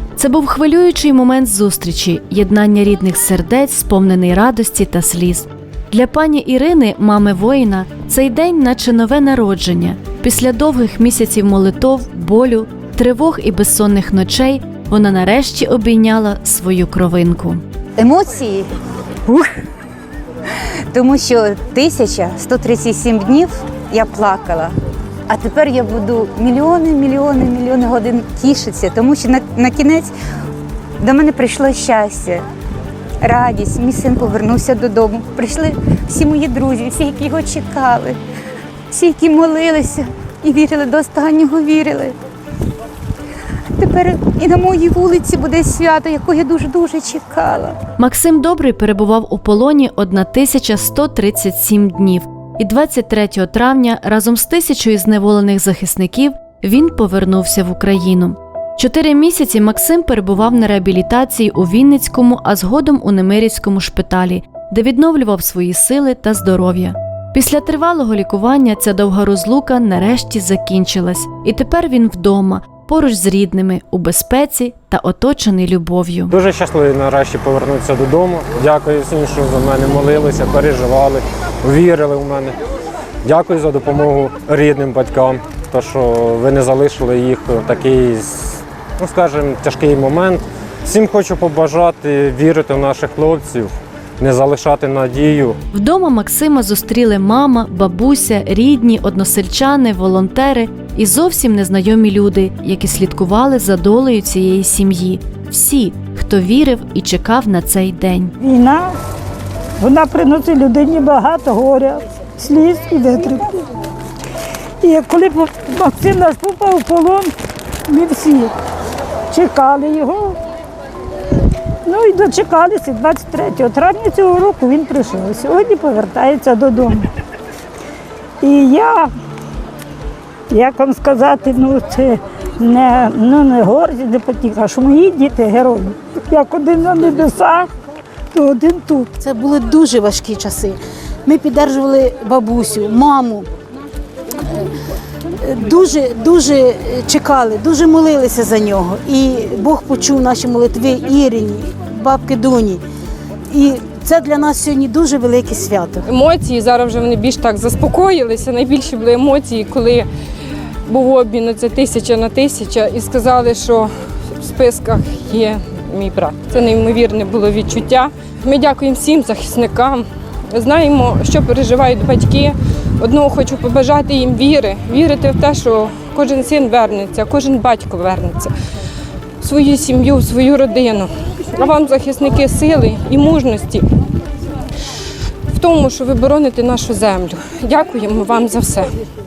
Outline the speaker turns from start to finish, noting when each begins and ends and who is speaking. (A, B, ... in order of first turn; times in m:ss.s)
0:00.2-0:17.6 A
0:18.0-0:18.7 B
0:20.9-0:24.7 B
0:25.3-0:30.1 B
0:31.0-0:32.4 B
0:33.2-0:38.2 B
0:38.9-0:42.1 B
0:43.8-0:47.8 B
0:48.0-1:16.3 A
1:16.3-1:22.6 C
1:23.2-1:35.6 C
1:35.7-1:48.3 A
1:48.4-1:48.9 D
1:49.8-1:53.6 D
1:54.8-1:57.3 D
1:57.9-1:58.5 D
1:59.3-2:00.4 D
2:01.8-2:07.1 D
2:08.4-2:09.1 D
2:10.5-2:17.7 D
2:18.3-2:19.1 D
2:19.2-2:23.5 E
2:25.4-2:32.8 E
2:33.5-2:36.0 E
2:36.0-2:40.1 F
2:40.9-2:58.5 F
2:59.4-3:03.8 F
3:05.5-3:08.9 F